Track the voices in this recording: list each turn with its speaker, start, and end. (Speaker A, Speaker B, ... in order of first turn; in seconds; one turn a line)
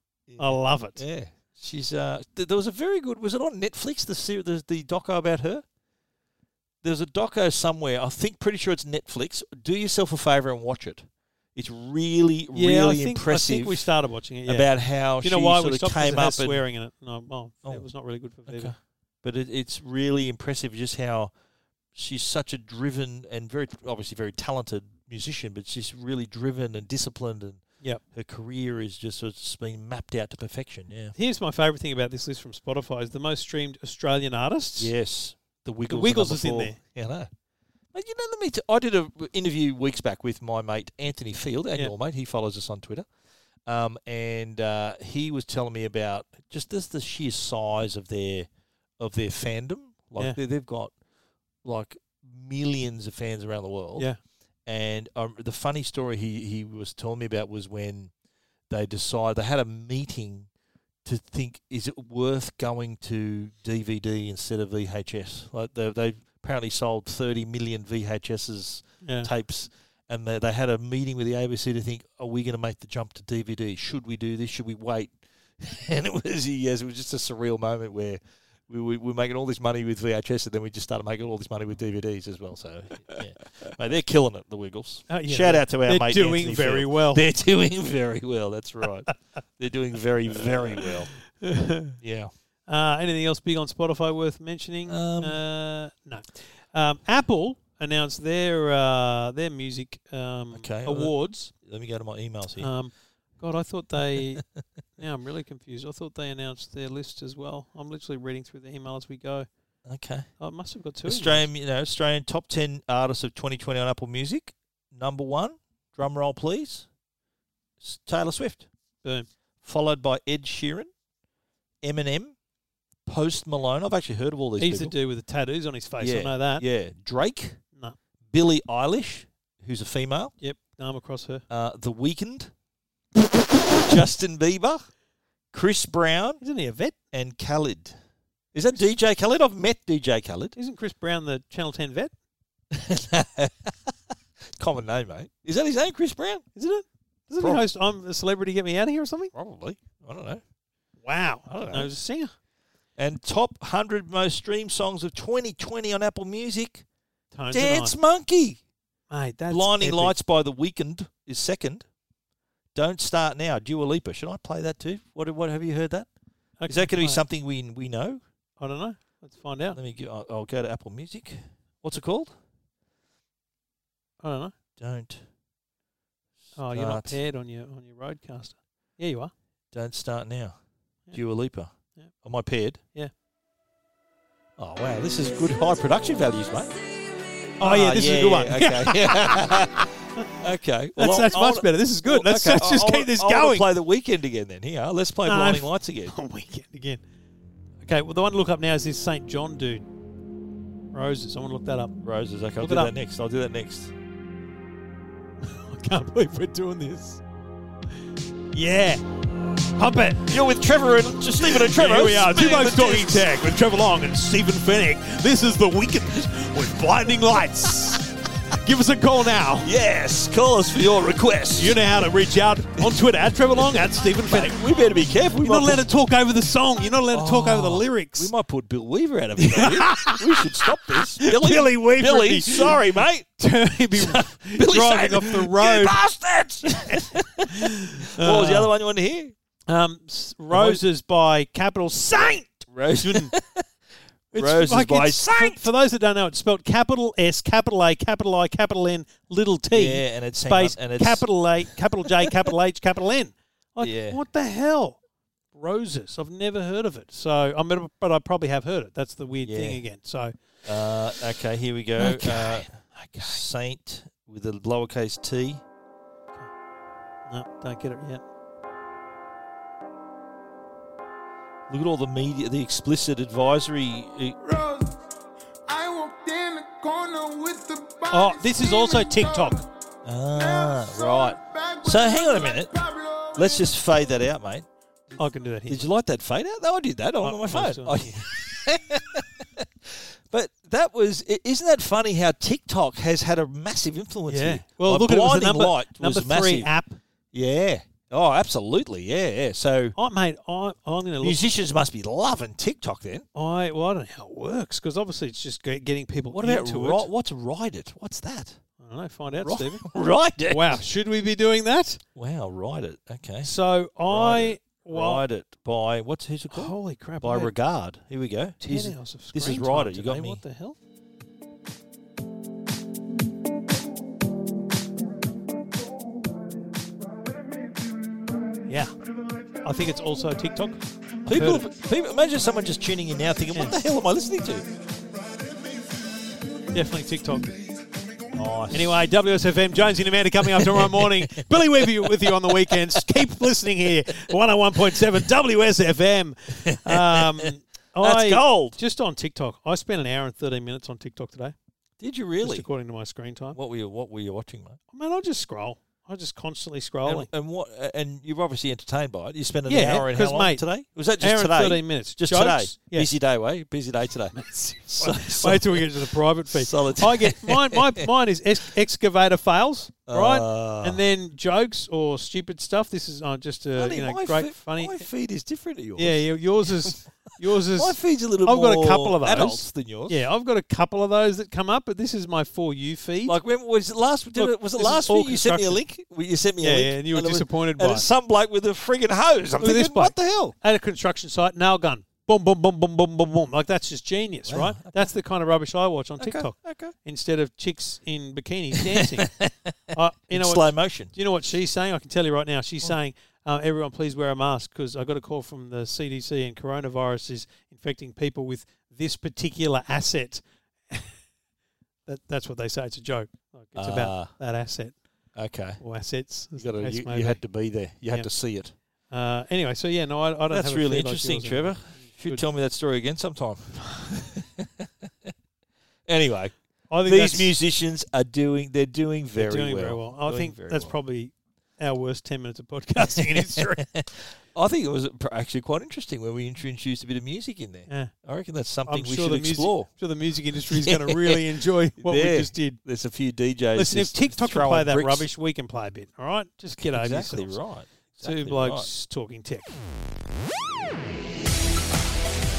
Speaker A: 0.3-5.6
Speaker B: 0.4-1.0
Speaker A: 6.8-13.9
Speaker B: 12.5-14.7
Speaker A: 14.5-16.6
Speaker B: 15.2-18.7
Speaker A: 18.5-21.3
Speaker A: 21.9-31.1
Speaker B: 31.1-34.9
Speaker A: 34.8-37.3
Speaker B: 35.9-36.8
Speaker A: 37.9-43.1
Speaker A: 43.7-50.9
Speaker A: 51.6-54.1
Speaker A: 54.7-58.1
Speaker A: 58.7-60.5
Speaker A: 61.0-91.2
Speaker B: 69.0-69.3
Speaker B: 85.1-87.2
Speaker B: 90.8-92.0
Speaker A: 92.0-92.3
Speaker B: 92.7-101.5
Speaker A: 94.9-95.4
Speaker A: 100.5-102.7
Speaker B: 102.6-104.4
Speaker B: 105.0-109.5
Speaker A: 109.8-110.3
Speaker B: 110.4-111.5
Speaker A: 111.1-116.9
Speaker A: 117.8-118.7
Speaker B: 119.0-119.3
Speaker A: 119.6-120.9
Speaker A: 121.8-122.4
Speaker A: 123.1-125.0
Speaker B: 124.6-126.6
Speaker A: 126.0-127.6
Speaker A: 128.3-130.3
Speaker B: 130.4-131.4
Speaker A: 131.5-132.5
Speaker A: 133.7-134.9
Speaker A: 135.5-136.4
Speaker B: 136.4-136.9
Speaker A: 137.1-137.9
Speaker A: 138.5-140.6
Speaker B: 140.6-142.1
Speaker A: 142.7-146.5
Speaker B: 146.6-149.3
Speaker A: 147.4-147.7
Speaker A: 149.3-150.4
Speaker B: 151.0-152.3
Speaker A: 151.5-151.9
Speaker A: 153.0-156.8
Speaker B: 157.3-158.0
Speaker A: 157.5-158.6
Speaker B: 159.1-160.2
Speaker A: 159.5-161.9
Speaker A: 162.8-166.1
Speaker B: 166.6-167.2
Speaker A: 166.7-168.2
Speaker B: 168.6-169.8
Speaker A: 169.8-172.3
Speaker B: 174.2-174.5
Speaker A: 174.8-175.2
Speaker B: 176.6-179.3
Speaker A: 176.7-177.2
Speaker A: 179.7-180.6
Speaker A: 181.1-181.7
Speaker A: 182.2-182.8
Speaker A: 184.6-186.8
Speaker A: 187.6-196.1
Speaker B: 187.6-189.6
Speaker B: 191.0-193.7
Speaker B: 195.3-197.0
Speaker B: 197.8-199.9
Speaker B: 200.9-201.9
Speaker A: 202.0-203.9
Speaker B: 202.6-202.9
Speaker B: 205.4-207.2
Speaker B: 208.5-209.1
Speaker B: 209.6-210.3
Speaker A: 210.3-213.4
Speaker B: 211.4-219.7
Speaker A: 219.6-221.8
Speaker B: 221.6-224.6
Speaker A: 224.2-225.8
Speaker B: 225.4-228.3
Speaker A: 227.1-233.3
Speaker B: 229.4-232.8
Speaker B: 233.4-236.0
Speaker A: 233.9-239.3
Speaker B: 236.9-238.7
Speaker B: 239.7-243.3
Speaker A: 240.5-240.8
Speaker A: 242.7-243.7
Speaker B: 244.3-255.0
Speaker A: 244.3-245.7
Speaker A: 249.7-252.5
Speaker A: 253.8-254.2
Speaker B: 255.5-260.3
Speaker A: 259.4-259.8
Speaker A: 260.6-265.6
Speaker B: 262.0-263.4
Speaker B: 267.3-268.2
Speaker A: 271.7-274.4
Speaker C: 274.4-275.0
Speaker C: 275.7-279.7
Speaker B: 278.1-279.7
Speaker A: 280.1-282.7
Speaker C: 280.4-283.7
Speaker A: 283.4-296.7
Speaker B: 285.2-285.8
Speaker B: 287.2-288.2
Speaker B: 294.3-297.0
Speaker A: 297.3-300.0
Speaker B: 300.0-301.5
Speaker A: 301.2-303.3
Speaker B: 303.4-307.1
Speaker A: 306.3-308.6
Speaker B: 308.8-309.9
Speaker A: 309.4-310.8
Speaker B: 310.5-312.0
Speaker A: 312.1-313.5
Speaker B: 313.4-315.2
Speaker A: 314.1-320.4
Speaker B: 316.5-317.5
Speaker B: 318.6-320.8
Speaker B: 328.7-328.9
Speaker B: 329.6-331.6
Speaker A: 331.3-334.7
Speaker B: 333.5-333.8
Speaker B: 336.7-337.6
Speaker A: 338.3-339.0
Speaker B: 338.7-351.6
Speaker A: 340.5-343.2
Speaker A: 346.6-348.8
Speaker A: 352.0-352.7
Speaker B: 352.4-353.6
Speaker A: 353.5-354.8
Speaker B: 354.9-357.3
Speaker A: 357.1-368.1
Speaker B: 359.7-360.6
Speaker B: 361.2-363.1
Speaker B: 364.3-375.1
Speaker A: 370.1-371.0
Speaker A: 373.8-380.2
Speaker B: 376.0-383.4
Speaker A: 383.3-390.6
Speaker B: 384.4-385.8
Speaker B: 386.6-388.1
Speaker B: 389.6-399.3
Speaker A: 394.5-395.1
Speaker A: 396.2-396.9
Speaker A: 398.8-401.1
Speaker B: 399.9-411.2
Speaker B: 412.1-415.0
Speaker A: 413.8-414.3
Speaker A: 415.4-415.8
Speaker B: 415.8-417.4
Speaker A: 416.6-418.7
Speaker B: 419.1-422.4
Speaker A: 420.5-425.3
Speaker A: 426.1-430.9
Speaker B: 426.9-427.5
Speaker B: 429.4-433.8
Speaker A: 433.0-439.9
Speaker B: 438.9-442.8
Speaker A: 440.6-441.4
Speaker A: 442.0-445.3
Speaker B: 443.8-447.6
Speaker A: 446.8-448.9
Speaker B: 448.1-449.8